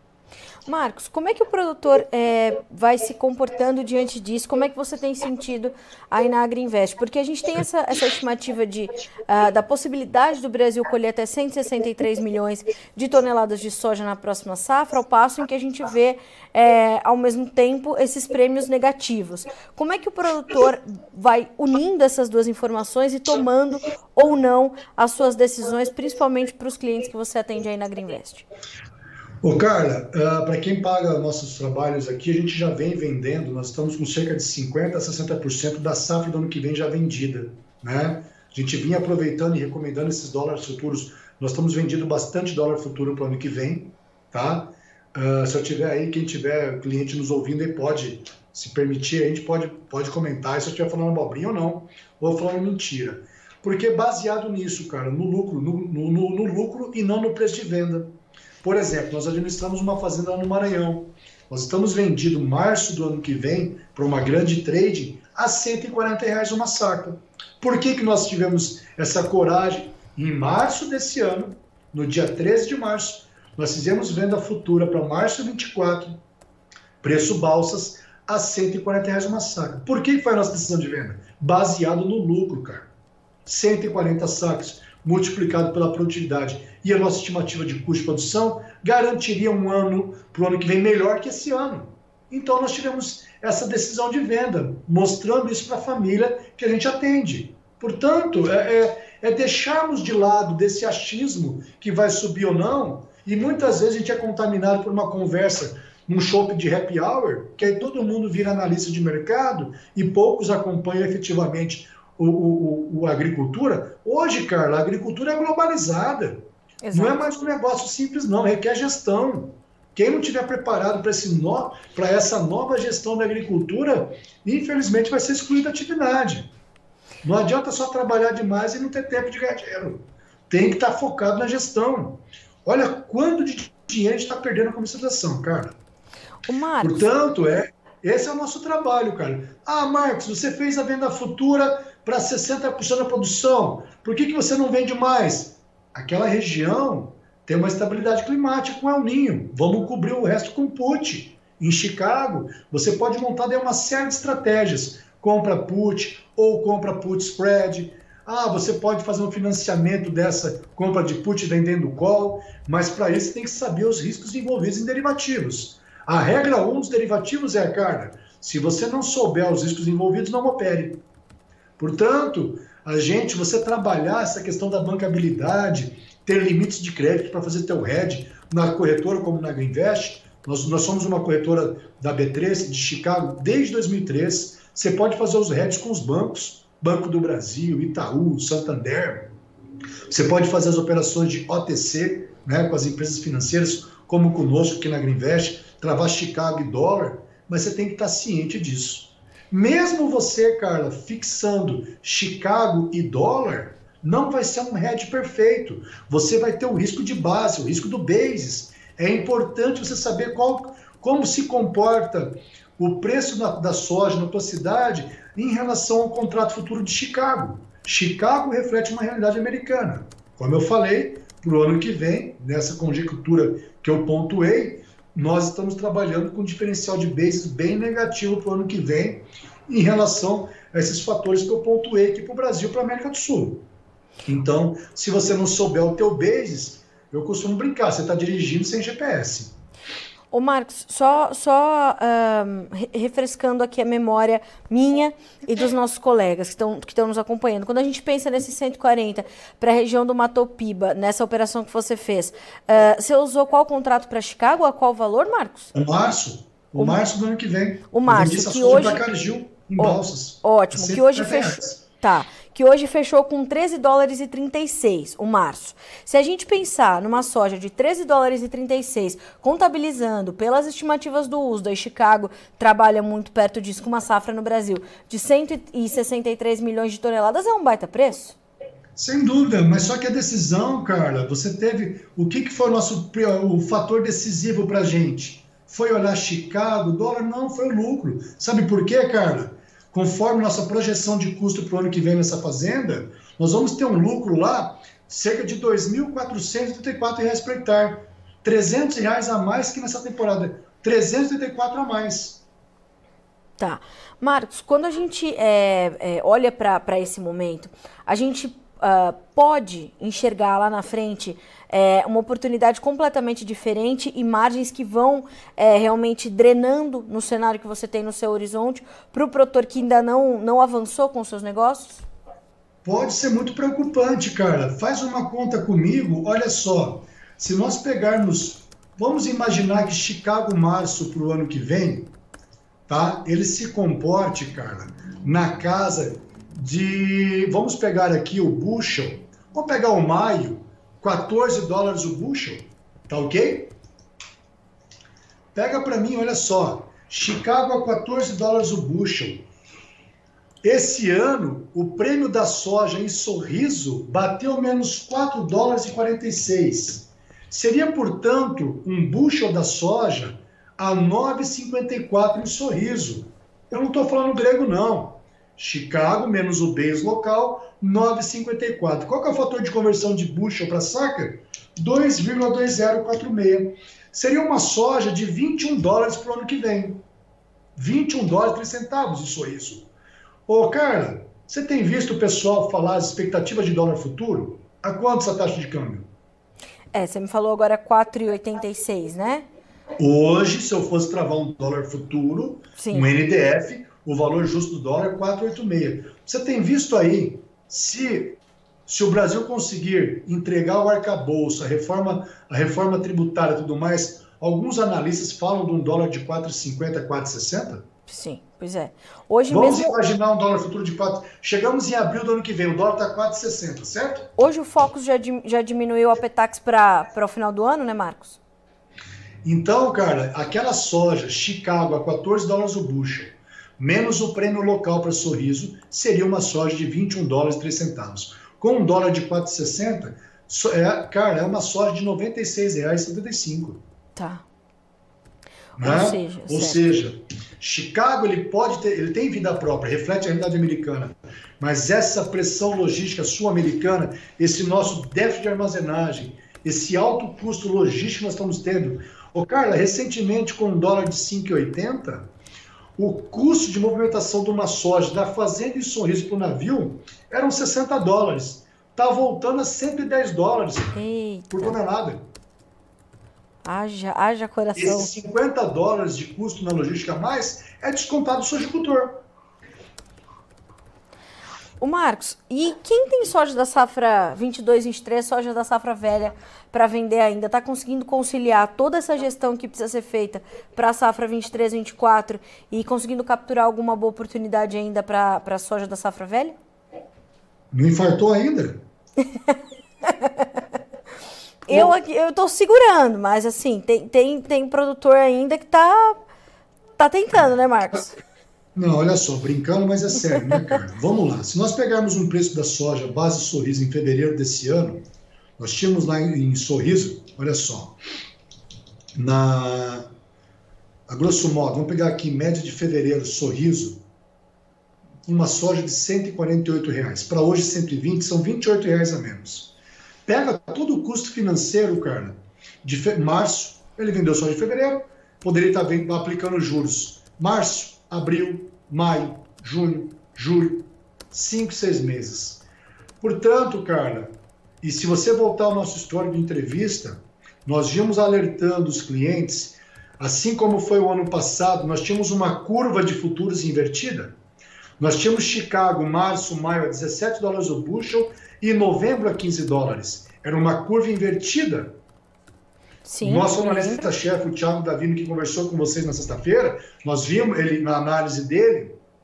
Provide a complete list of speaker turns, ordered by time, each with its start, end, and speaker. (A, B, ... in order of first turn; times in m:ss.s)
0:00.7-0:28.4 A
0:29.4-0:58.1 B
0:58.6-1:16.2 B
1:17.0-1:22.9 B
1:23.4-2:06.5 B
1:56.8-1:57.3 A
2:07.2-2:15.8 B
2:16.4-2:17.1 A
2:16.8-2:51.0 B
2:51.8-3:09.3 B
3:10.1-3:53.6 B
3:54.2-3:59.5 B
4:00.3-4:15.7 A
4:15.7-4:21.8 B
4:17.9-4:19.0 A
4:19.8-4:38.4 A
4:39.0-5:02.4 B
5:03.6-5:22.0 A
5:22.8-5:32.1 B
5:32.9-5:43.7 B
5:45.5-5:49.4 B
5:50.6-6:17.0 B
6:17.8-6:19.9 B
6:20.5-6:26.1 B
6:26.9-6:29.4 A
6:30.0-6:47.8 B
6:32.8-6:33.1 A
6:48.1-6:49.9 A
6:49.5-6:54.3 B
6:54.4-6:58.4 A
6:59.4-7:13.8 B
7:14.2-7:14.4 A
7:15.8-7:16.9 A
7:15.8-7:32.3 B
7:33.0-7:42.2 B
7:40.9-7:41.8 A
7:43.6-7:45.1 A
7:44.7-7:49.2 B
7:51.8-8:06.5 A
8:07.7-8:08.8 B
8:10.0-8:10.6 A
8:11.7-8:16.2 A
8:17.0-8:18.2 A
8:18.8-8:25.0 B
8:25.6-8:27.9 B
8:29.1-8:30.1 B
8:31.1-8:34.0 B
8:35.2-8:39.7 B
8:40.2-8:52.6 B
8:53.2-9:04.3 B
9:05.0-9:11.9 B
9:13.0-9:14.1 A
9:13.2-9:19.0 B